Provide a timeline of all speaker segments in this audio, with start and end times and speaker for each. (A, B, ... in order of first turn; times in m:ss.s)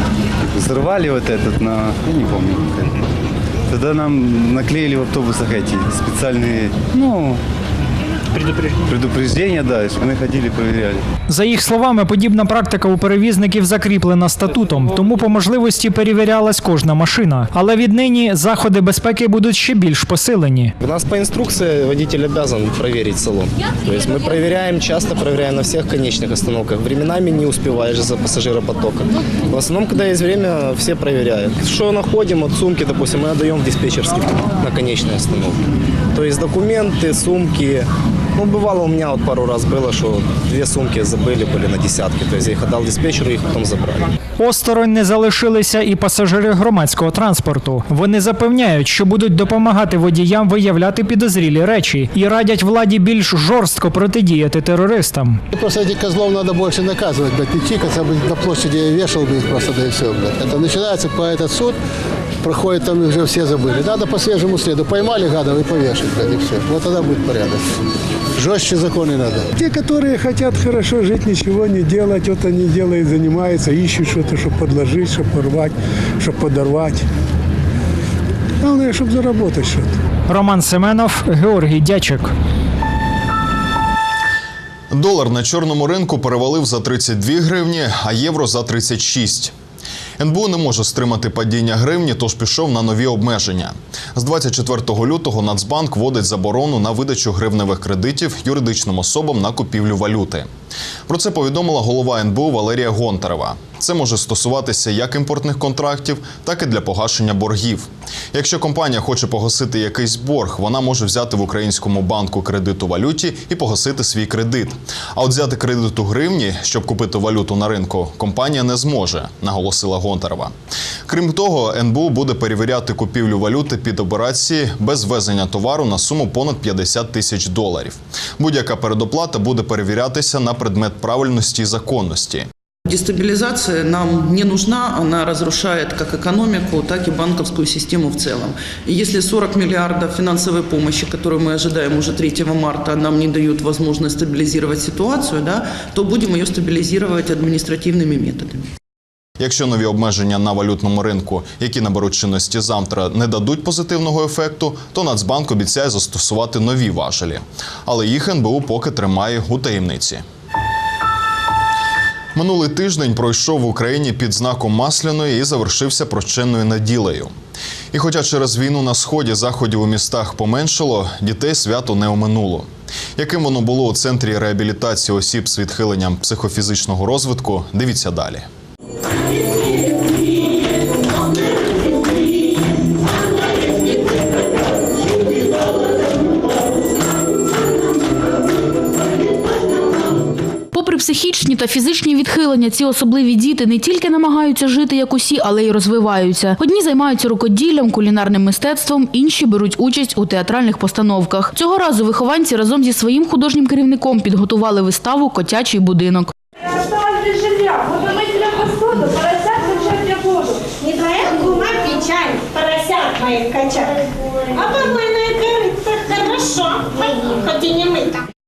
0:00.4-0:03.0 A
0:03.7-0:07.4 A
0:08.7-0:11.0 A
0:11.3-0:20.7 B
0:20.8-0:35.6 C
0:36.1-0:44.1 C
0:44.4-0:55.4 B
0:55.5-1:01.8 D
1:02.4-1:07.6 D
1:08.4-1:09.5 D
1:09.5-1:17.0 E
1:18.6-1:19.9 E
1:20.3-1:22.3 B
1:24.9-1:29.5 F
1:30.2-1:40.5 F
1:41.1-2:00.5 F
2:01.1-2:12.5 F
2:12.9-2:28.7 G
2:29.4-2:40.2 F
2:42.4-2:47.3 F
2:47.9-2:58.4 F
3:10.7-3:26.3 H
3:27.1-3:33.9 I
3:34.5-3:38.2 I